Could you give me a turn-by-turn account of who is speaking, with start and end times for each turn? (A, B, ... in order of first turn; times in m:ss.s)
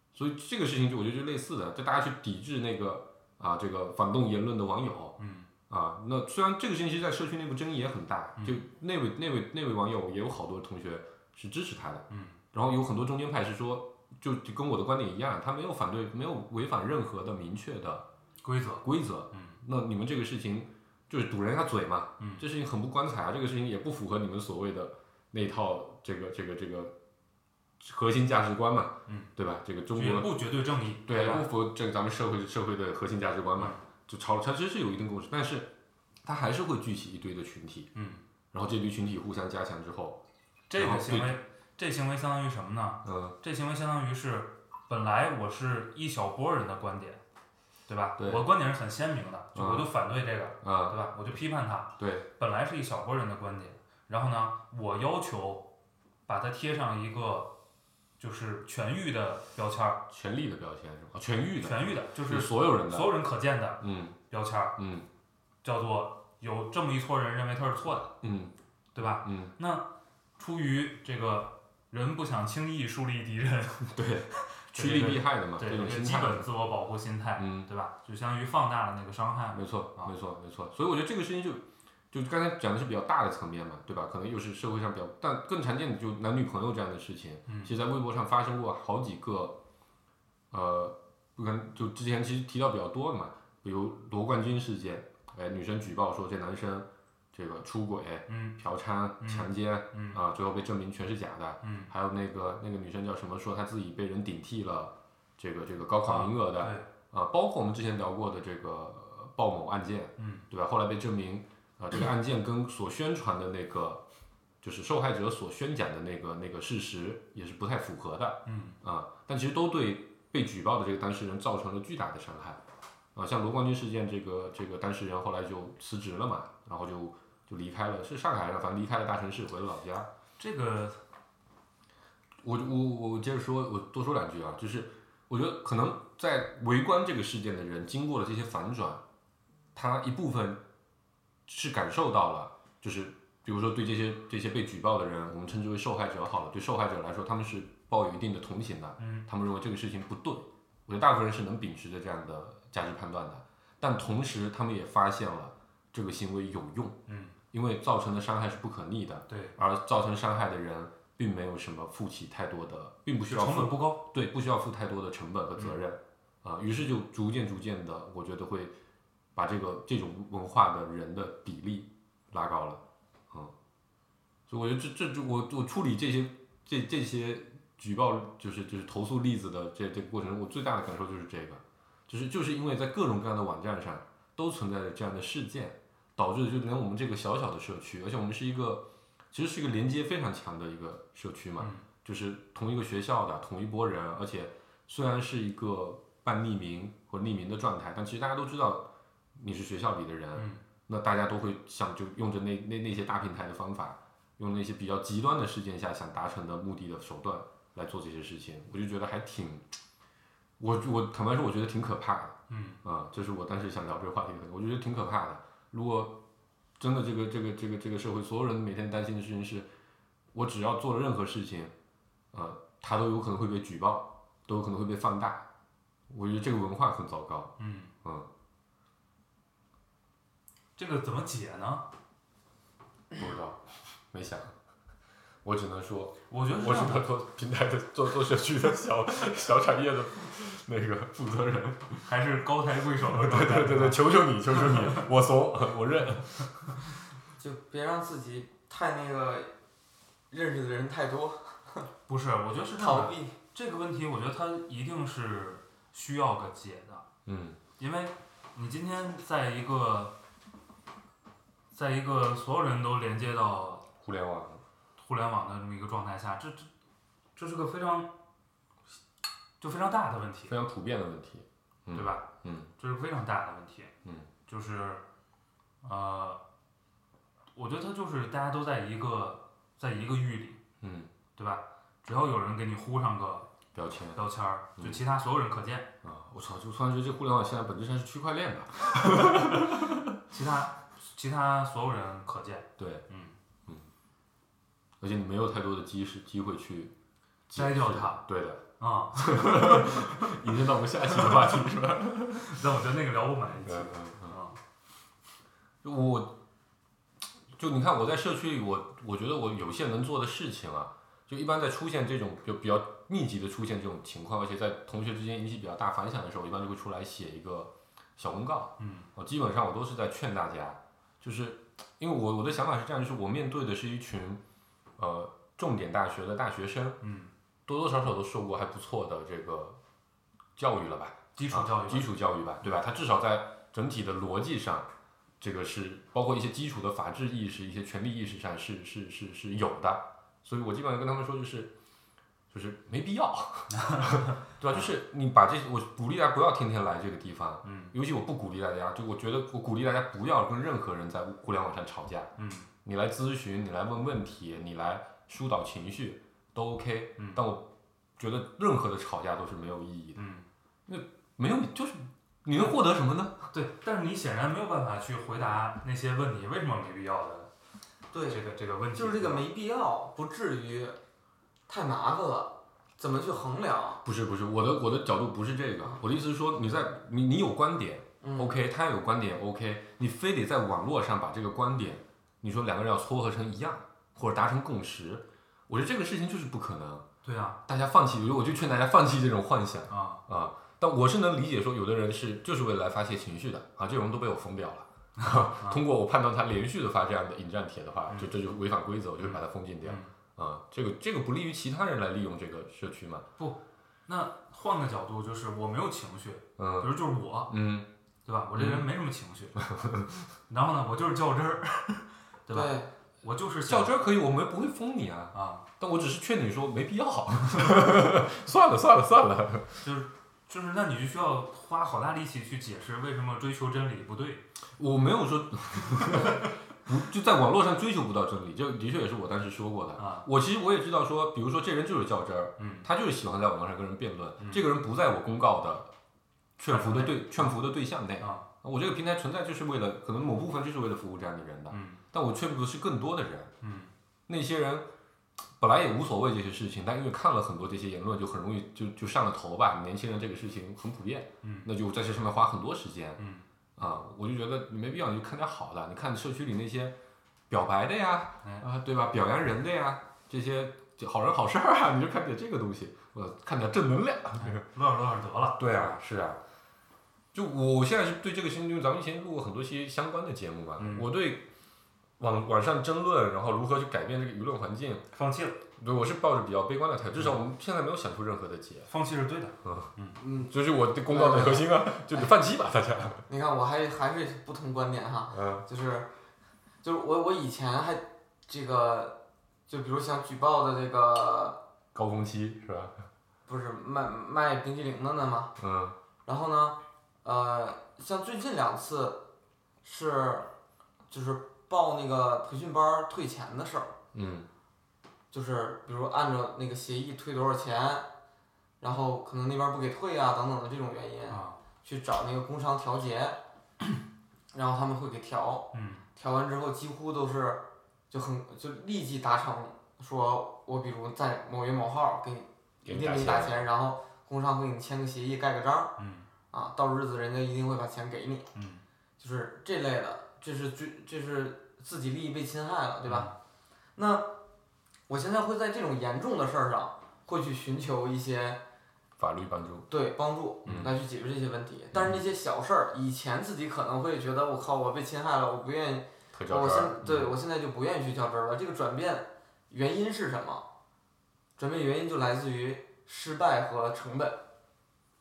0:00.1-0:05.2 A
0:05.2-0:05.5 B
0:05.7-0:18.1 A
0:08.4-0:08.6 B
0:12.1-0:12.4 B
0:18.4-0:19.6 B
0:18.8-0:27.0 A
0:22.2-0:22.5 B
0:27.8-0:30.4 A
0:29.1-0:29.3 B
0:29.9-0:31.5 B
0:31.1-0:35.7 A
0:36.2-0:37.9 A
0:38.0-0:38.2 B
0:38.5-0:40.2 A
0:40.7-0:47.2 B
0:40.8-0:41.4 A
0:43.0-0:43.4 A
0:47.9-0:55.7 B
0:48.2-0:48.4 A
0:49.6-0:49.9 A
0:50.6-0:51.0 A
0:52.0-0:52.3 A
0:56.3-0:57.5 B
0:58.2-1:00.0 B
1:00.1-1:03.2 A
1:01.6-1:04.8 B
1:03.8-1:04.2 A
1:04.8-1:05.1 A
1:05.6-1:08.1 B
1:08.2-1:08.5 A
1:09.0-1:09.8 B
1:09.2-1:09.5 A
1:10.4-1:20.1 B
1:14.0-1:16.5 A
1:17.4-1:17.7 A
1:19.5-1:29.6 A
1:27.5-1:27.8 B
1:30.5-1:54.0 A
1:38.3-1:38.6 B
1:39.2-1:40.2 B
1:41.6-1:41.9 B
1:46.0-1:46.9 B
1:50.2-1:50.5 B
1:54.6-2:02.6 A
1:58.5-1:58.8 B
2:03.2-2:10.1 A
2:10.4-2:11.0 B
2:12.4-2:19.0 A
2:19.8-2:20.6 A
2:21.5-2:37.0 A
2:29.0-2:29.2 B
2:37.1-2:37.4 B
2:37.5-2:48.8 A
2:39.3-2:39.5 B
2:43.2-2:44.0 B
2:49.4-2:53.5 A
2:54.5-3:29.8 A
3:11.6-3:11.8 B
3:20.4-3:20.6 B
3:30.6-3:36.2 A
3:32.5-3:32.8 B
3:36.8-3:39.7 A
3:40.3-3:41.7 A
3:42.3-3:45.4 A
3:46.1-3:48.3 A
3:47.6-3:47.9 B
3:50.8-3:51.8 B
3:53.2-3:54.5 A
3:55.4-4:02.1 A
3:56.3-3:57.1 B
4:02.0-4:05.0 B
4:03.1-4:06.4 A
4:07.4-4:09.5 C
4:10.3-4:11.9 C
4:12.1-4:17.0 B
4:12.7-4:13.4 C
4:17.3-4:17.6 A
4:17.8-4:20.1 B
4:21.7-4:23.9 B
4:24.0-4:24.6 A
4:25.0-4:26.7 B
4:27.4-4:28.1 B
4:29.6-4:30.5 B
4:30.5-4:32.7 A
4:31.9-4:33.9 B
4:34.5-4:35.0 B
4:35.8-4:36.4 B
4:37.6-4:40.6 B
4:40.8-4:41.1 A
4:41.4-4:43.5 B
4:43.7-4:44.2 A
4:44.2-4:45.9 B
4:44.8-4:45.0 A
4:46.0-4:50.2 A
4:50.3-4:53.4 B
4:52.8-4:53.0 A
4:55.0-4:56.9 A
4:57.5-4:58.6 A
4:57.6-4:58.2 B
4:58.8-5:00.4 B
4:59.2-5:02.6 A
5:01.1-5:04.6 B
5:03.6-5:04.4 A
5:05.8-5:06.3 A
5:07.6-5:24.4 A
5:18.8-5:19.1 B
5:25.0-5:27.0 A
5:27.0-5:27.3 B
5:27.7-5:29.8 A
5:30.6-5:34.9 A
5:31.4-5:32.1 B
5:35.4-5:41.7 A
5:42.5-5:52.3 A
5:43.8-5:44.9 B
5:47.6-5:47.9 B
5:52.4-5:52.7 B
5:52.8-6:00.2 A
6:00.2-6:00.4 B
6:00.9-6:03.5 A
6:03.5-6:07.5 B
6:08.1-6:08.4 C
6:08.3-6:09.5 B
6:09.0-6:11.0 C
6:11.7-6:14.0 C
6:14.0-6:27.0 A
6:18.2-6:18.5 C
6:27.2-6:27.6 B
6:27.7-6:43.3 A
6:29.9-6:30.2 B
6:35.2-6:35.8 B
6:39.2-6:40.1 B
6:43.4-6:47.5 B
6:46.6-6:47.0 A
6:47.5-6:47.9 A
6:48.3-6:49.6 B
6:48.6-6:48.9 A
6:49.7-6:50.1 A
6:50.5-6:53.9 B
6:52.5-6:52.9 C
6:53.7-6:59.8 A
6:55.3-6:55.6 B
6:59.8-7:04.4 B
7:04.8-7:15.9 A
7:10.0-7:10.3 B
7:12.6-7:12.9 B
7:14.4-7:14.7 B
7:16.6-7:23.5 A
7:16.7-7:17.6 B
7:18.2-7:18.4 B
7:21.7-7:22.0 B
7:23.6-7:23.9 B
7:24.3-7:24.9 A
7:25.6-7:33.2 A
7:31.4-7:31.7 B
7:33.2-7:33.4 B
7:33.8-7:37.0 A
7:37.5-7:44.6 A
7:44.4-7:45.7 B
7:45.6-7:46.4 A
7:47.3-7:51.5 A
7:50.8-7:51.1 B
7:52.2-7:55.1 A
7:55.1-7:55.6 B
7:55.8-7:58.9 A
7:58.9-8:00.2 B
7:59.6-7:59.9 A
8:00.2-8:00.5 C
8:00.4-8:03.2 A
8:01.1-8:01.7 C
8:03.3-8:06.1 C
8:05.3-8:05.6 A
8:06.8-8:09.2 C
8:09.7-8:11.6 C
8:11.9-8:12.9 A
8:13.5-8:15.5 C
8:15.6-8:16.0 A
8:16.3-8:19.2 C
8:19.8-8:20.5 C
8:21.1-8:23.9 C
8:24.1-8:24.5 A
8:25.3-8:28.1 C
8:28.8-8:33.4 C
8:31.3-8:31.6 B
8:34.5-8:45.9 C
8:35.7-8:36.0 B
8:42.8-8:43.6 A
8:46.0-8:46.3 B
8:46.5-8:48.5 C
8:48.5-8:48.8 B
8:49.2-8:53.3 C
8:53.0-8:53.3 B
8:54.0-8:54.3 C
8:55.1-8:58.6 C
8:59.2-8:59.9 A
8:59.9-9:10.6 C
9:00.7-9:00.9 A
9:06.3-9:07.3 A
9:11.6-9:14.4 C